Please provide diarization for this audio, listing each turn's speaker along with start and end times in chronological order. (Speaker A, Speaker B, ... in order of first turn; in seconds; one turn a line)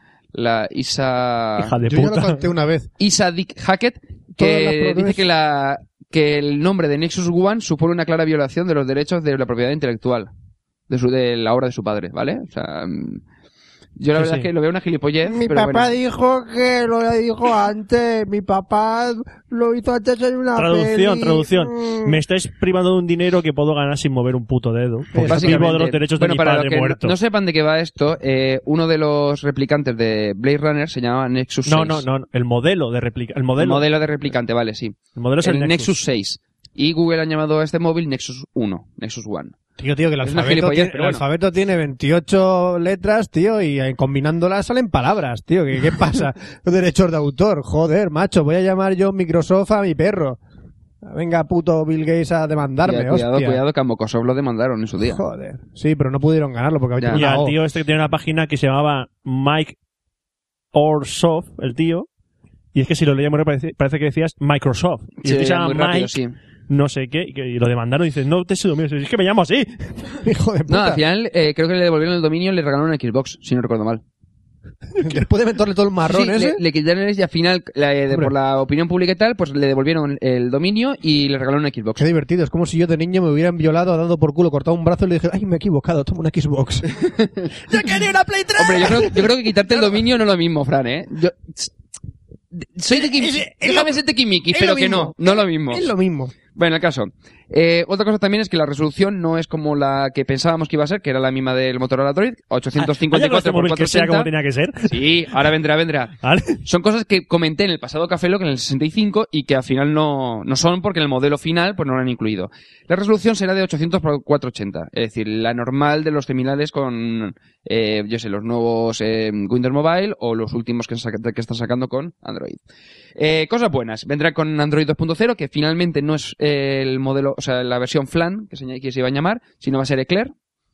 Speaker A: 0.3-1.7
Speaker B: 1.6-2.4
Speaker C: 1.9-2.9
Speaker A: 3.0-10.3
Speaker C: 4.4-5.2
Speaker A: 10.9-13.2
Speaker A: 14.0-15.9
Speaker B: 14.1-14.5
Speaker C: 15.2-22.2
Speaker B: 20.6-27.1
Speaker C: 25.1-25.8
Speaker A: 25.2-32.0
Speaker B: 31.6-33.9
Speaker A: 33.6-39.6
Speaker B: 35.1-35.9
Speaker C: 39.8-50.4
Speaker A: 40.2-41.2
Speaker C: 51.0-53.6
Speaker A: 52.8-55.2
Speaker C: 55.0-57.6
Speaker B: 57.1-59.8
Speaker B: 60.7-62.1
Speaker B: 62.7-66.1
Speaker A: 65.2-66.3
Speaker B: 66.7-70.2
Speaker C: 70.2-71.0
Speaker A: 70.7-74.0
Speaker C: 75.0-76.6
Speaker A: 76.1-82.1
Speaker C: 82.0-87.0
Speaker A: 87.0-87.5
Speaker C: 87.6-90.0
Speaker A: 88.6-91.7
Speaker A: 92.6-95.9
Speaker C: 92.9-96.3
Speaker A: 96.5-104.3
Speaker B: 102.8-105.1
Speaker A: 104.9-122.6
Speaker B: 106.2-106.6
Speaker A: 123.2-130.3